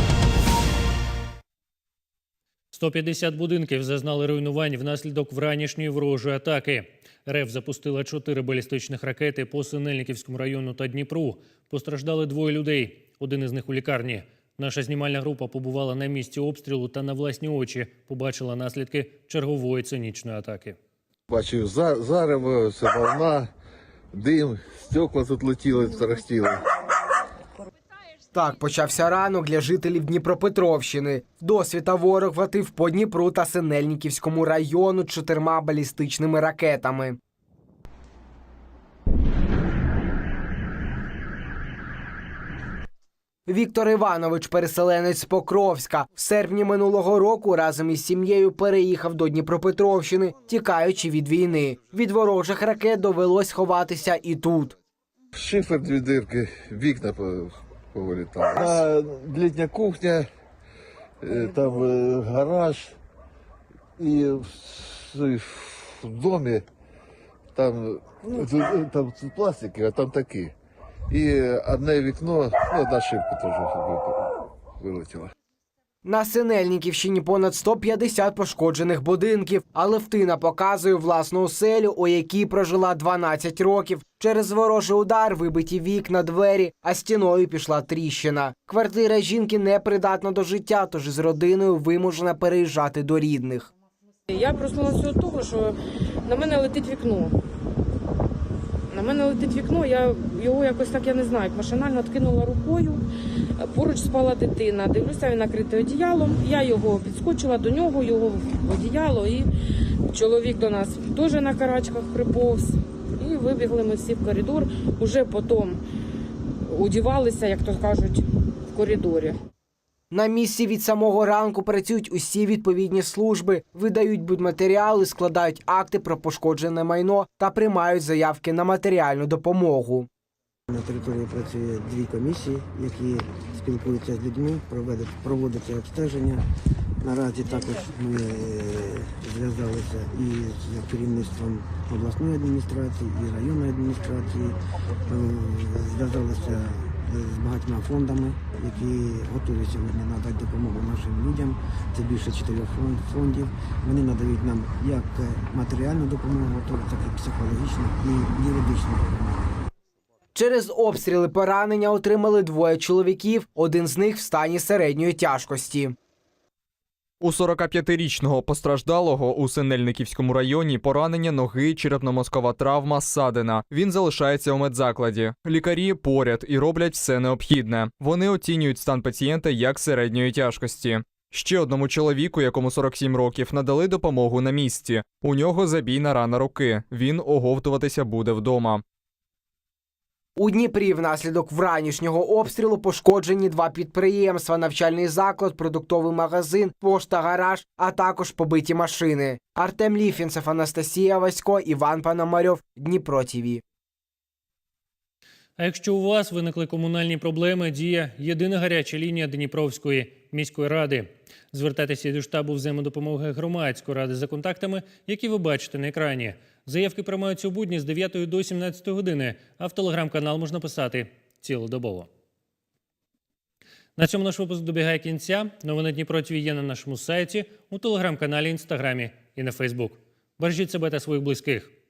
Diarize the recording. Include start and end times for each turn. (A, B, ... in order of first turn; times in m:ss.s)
0:02.7-0:20.8 A
0:21.3-0:23.5 B
0:24.1-0:26.6 B
0:28.3-0:37.2 C
0:43.5-0:54.8 C
0:55.3-1:00.3 B
1:01.2-1:03.0 B
1:04.0-1:06.7 B
1:07.6-1:10.5 B
1:11.1-1:15.3 B
1:16.0-1:33.7 C
1:34.3-1:37.4 D
1:38.9-1:43.0 D
1:43.6-1:49.5 D
1:50.1-1:55.8 D
1:56.6-1:59.4 D
2:00.1-2:10.1 C
2:10.7-2:16.4 E
2:17.0-2:39.6 E
2:40.4-2:46.0 C
2:47.2-3:08.8 F
3:10.4-3:23.6 C
3:25.6-3:42.1 A
3:44.0-3:51.8 A